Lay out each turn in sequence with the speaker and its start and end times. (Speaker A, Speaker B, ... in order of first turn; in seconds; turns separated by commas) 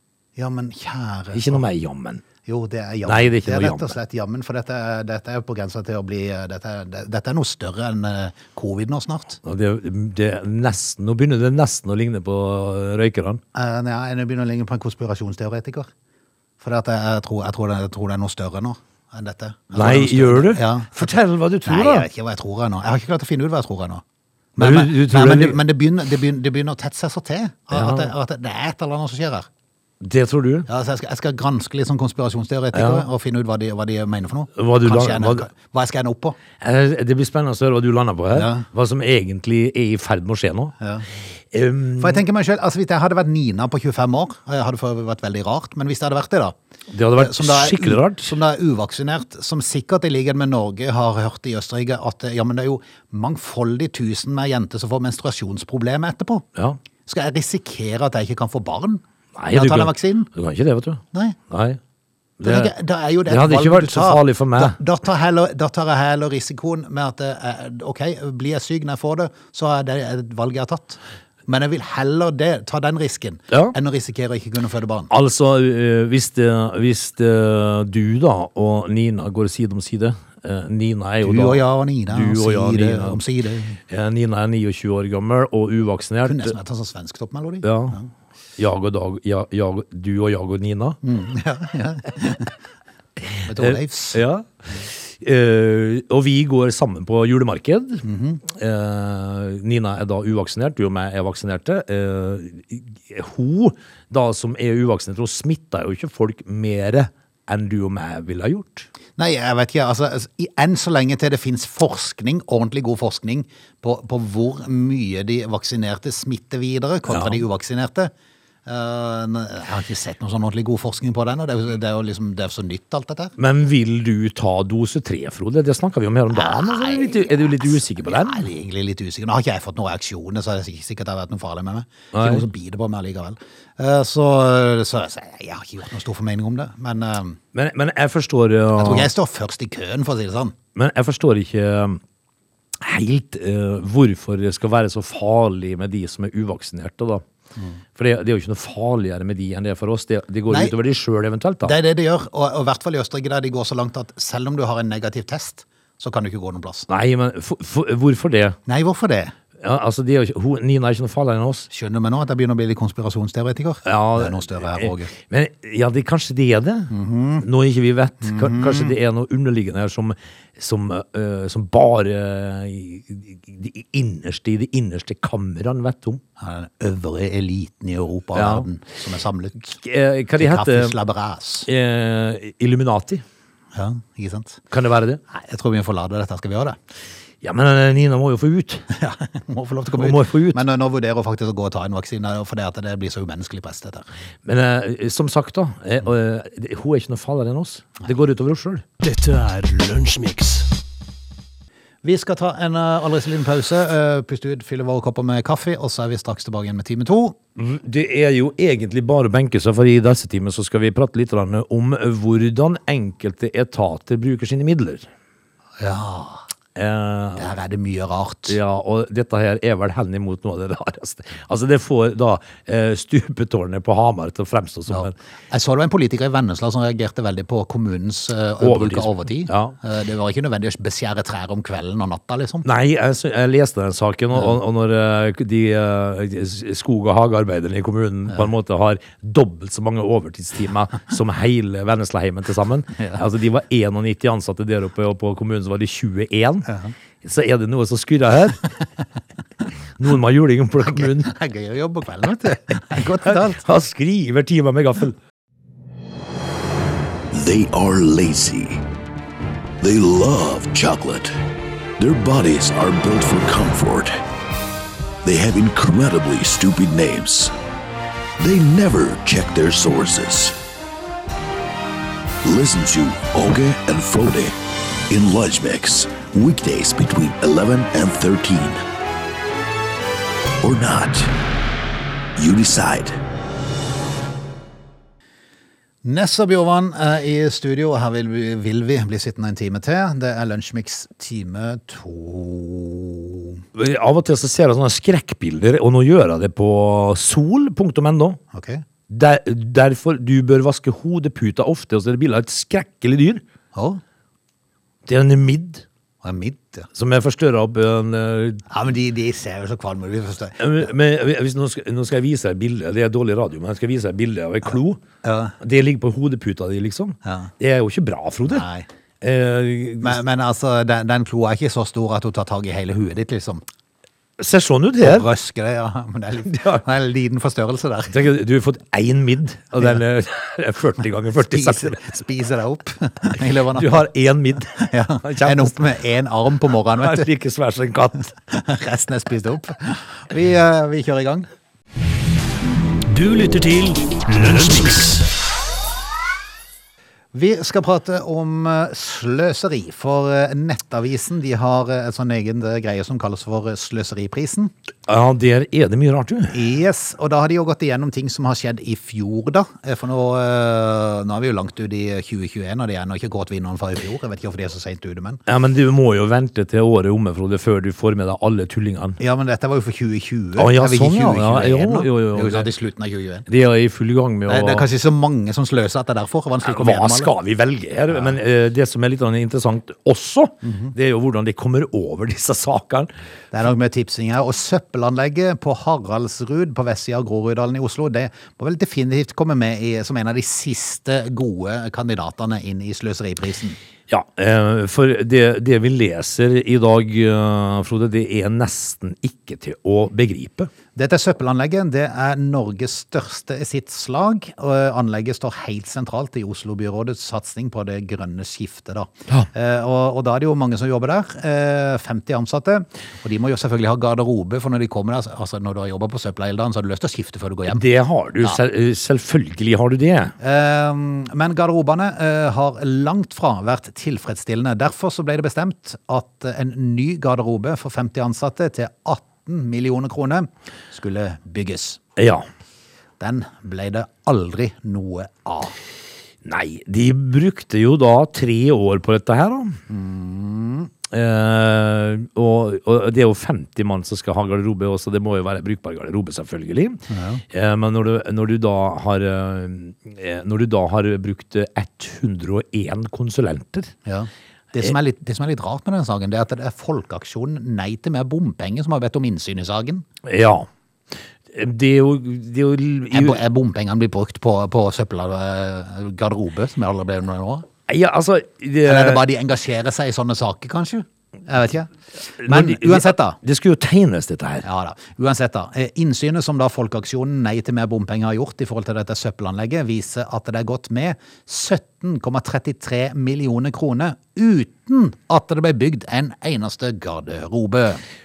Speaker A: 0.4-1.6, Speaker B: 1.3-2.2, Speaker A: 2.4-9.4, Speaker B: 3.0-4.0, Speaker B: 9.4-13.4, Speaker A: 13.5-15.9, Speaker A: 16.6-24.0, Speaker B: 19.7-22.1, Speaker A: 24.6-29.5, Speaker B: 24.6-25.6, Speaker B: 27.7-28.1, Speaker B: 30.0-30.7, Speaker A: 30.7-36.4, Speaker B: 32.7-33.1, Speaker B: 34.5-35.5, Speaker B: 36.6-40.7, Speaker A: 38.3-38.6, Speaker A: 40.8-41.0, Speaker B: 41.5-42.2, Speaker A: 42.0-46.5, Speaker B: 46.9-48.3, Speaker A: 47.1-56.5, Speaker A: 57.0-60.3, Speaker B: 59.4-61.8, Speaker B: 62.4-62.7, Speaker A: 62.4-75.1, Speaker B: 63.2-64.8, Speaker B: 73.5-73.7, Speaker B: 75.1-83.2, Speaker A: 81.2-83.8, Speaker B: 83.9-86.5, Speaker A: 86.2-88.1, Speaker B: 87.6-88.0, Speaker B: 88.6-91.0, Speaker A: 91.0-92.5, Speaker B: 93.2-108.9, Speaker A: 93.4-94.2, Speaker A: 98.0-98.4, Speaker A: 109.2-118.1, Speaker B: 117.1-117.4, Speaker A: 118.7-123.3, Speaker B: 123.4-128.4, Speaker A: 126.3-137.4, Speaker B: 132.1-132.4, Speaker B: 137.5-139.1, Speaker A: 138.8-140.5, Speaker B: 140.7-142.0, Speaker B: 142.8-147.2, Speaker B: 147.9-151.7, Speaker A: 150.5-150.7, Speaker A: 151.6-156.9, Speaker B: 156.9-158.6, Speaker A: 158.7-159.3, Speaker B: 159.6-161.7, Speaker A: 161.7-165.1, Speaker B: 163.8-176.2, Speaker A: 166.9-167.4, Speaker A: 168.2-168.9, Speaker A: 176.4-179.7, Speaker B: 178.3-178.7, Speaker B: 179.6-180.9, Speaker A: 180.4-181.7, Speaker B: 181.7-183.2, Speaker A: 183.7-184.6, Speaker B: 184.7-185.2, Speaker A: 185.3-186.8, Speaker B: 187.4-188.9, Speaker A: 188.9-194.1, Speaker B: 189.9-190.6, Speaker B: 194.4-198.8, Speaker C: 199.0-200.7, Speaker A: 202.0-207.4, Speaker B: 207.6-215.1, Speaker A: 215.8-216.4, Speaker B: 216.8-217.5, Speaker A: 217.3-218.6, Speaker B: 218.5-225.1, Speaker A: 224.9-232.7, Speaker B: 228.6-229.8, Speaker B: 232.6-248.6, Speaker A: 246.7-246.9, Speaker B: 250.0-251.3, Speaker A: 250.8-253.6, Speaker B: 252.9-255.2, Speaker D: 257.3-258.8, Speaker D: 259.8-261.3, Speaker D: 262.0-264.1, Speaker D: 265.2-267.5, Speaker D: 268.4-270.6, Speaker D: 272.4-274.5, Speaker D: 275.1-278.8, Speaker D: 280.6-281.3, Speaker D: 282.4-283.2, Speaker A: 286.0-293.6, Speaker B: 293.7-298.4, Speaker A: 298.5-298.8, Speaker B: 299.1-303.4, Speaker A: 303.7-304.0, Speaker B: 305.1-305.8, Speaker A: 306.2-306.9, Speaker B: 306.9-308.6, Speaker A: 308.7-310.9, Speaker B: 310.6-315.0, Speaker A: 315.2-315.6, Speaker B: 315.6-318.6, Speaker A: 317.2-317.5, Speaker A: 318.5-318.9, Speaker B: 319.2-320.2, Speaker A: 320.0-323.6, Speaker B: 324.4-325.3, Speaker A: 325.0-328.2, Speaker B: 326.4-326.8, Speaker B: 328.1-332.1, Speaker A: 331.4-334.1, Speaker B: 333.5-335.8, Speaker A: 334.7-337.3, Speaker B: 337.0-338.3, Speaker A: 338.5-341.5, Speaker C: 343.1-345.3, Speaker A: 347.3-354.7, Speaker B: 355.1-356.6, Speaker A: 356.5-365.4, Speaker B: 365.5-369.2, Speaker A: 369.2-373.5, Speaker B: 370.6-372.7, Speaker B: 373.5-374.9, Speaker A: 374.5-377.3, Speaker B: 376.6-383.1, Speaker A: 380.6-380.9, Speaker A: 383.5-393.8, Speaker B: 394.1-400.7, Speaker A: 400.9-417.8, Speaker B: 417.7-420.3, Speaker A: 420.4-432.0, Speaker B: 432.1-432.4, Speaker A: 433.2-435.8, Speaker B: 436.4-439.8, Speaker A: 439.9-440.9, Speaker B: 441.1-453.9, Speaker A: 447.1-447.4, Speaker A: 454.1-460.0, Speaker B: 460.2-460.7, Speaker B: 461.5-463.4, Speaker A: 463.1-467.7, Speaker B: 467.9-469.2, Speaker A: 468.8-473.4, Speaker B: 472.4-474.6, Speaker A: 474.6-488.0